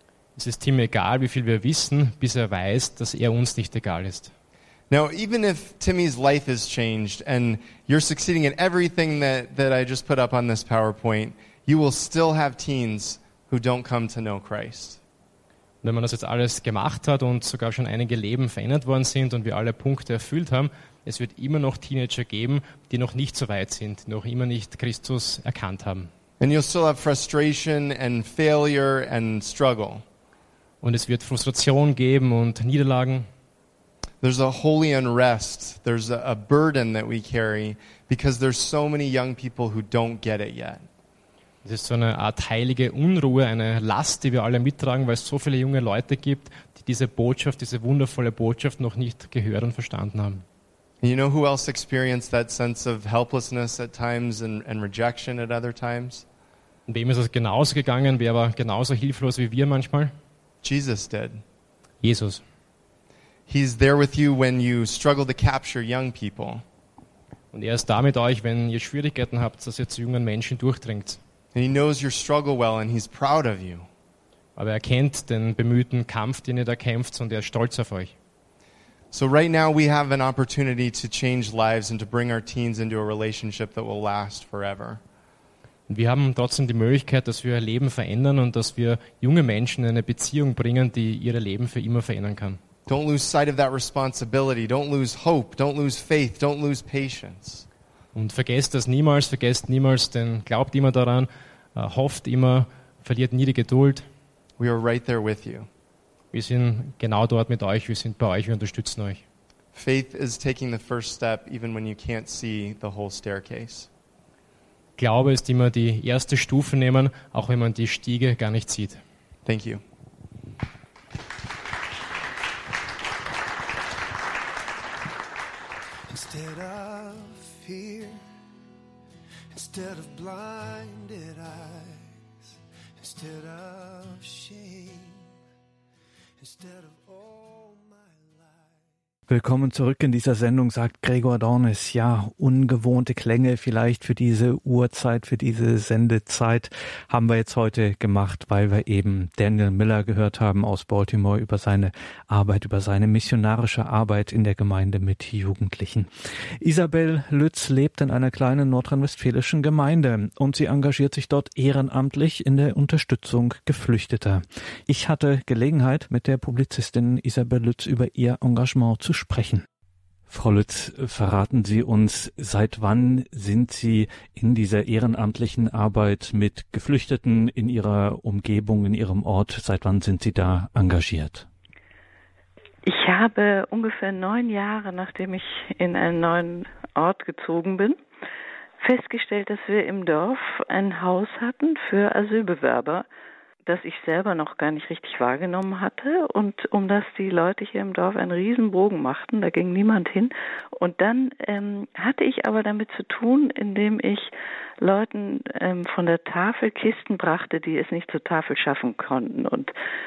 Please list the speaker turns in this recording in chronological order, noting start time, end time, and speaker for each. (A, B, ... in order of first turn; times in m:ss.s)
0:00.4-0:04.3 A
0:04.9-0:15.0 B
0:15.8-0:26.1 A
0:26.4-0:30.0 B
0:30.8-0:33.3 A
0:34.2-0:40.8 B
0:41.6-0:50.4 A
0:51.0-0:56.2 B
0:56.9-1:00.1 A
1:00.6-1:01.4 B
1:02.0-1:02.4 A
1:03.5-1:06.6 B
1:07.5-1:11.2 A
1:11.5-1:13.9 B
1:14.6-1:18.1 A
1:19.1-1:25.0 B
1:25.9-1:32.6 A
1:32.8-1:37.7 B
1:38.1-1:44.0 A
1:44.6-1:45.7 B
1:46.3-1:49.2 A
1:49.7-1:53.9 B
1:55.0-1:59.0 A
1:59.4-1:59.8 B
2:06.1-2:08.2 C
2:09.5-2:15.3 C
2:16.4-2:18.8 C
2:19.3-2:36.1 D
2:36.6-2:49.6 D
2:50.3-3:01.5 D
3:02.8-3:08.0 E
3:08.8-3:13.0 E
3:13.6-3:29.7 E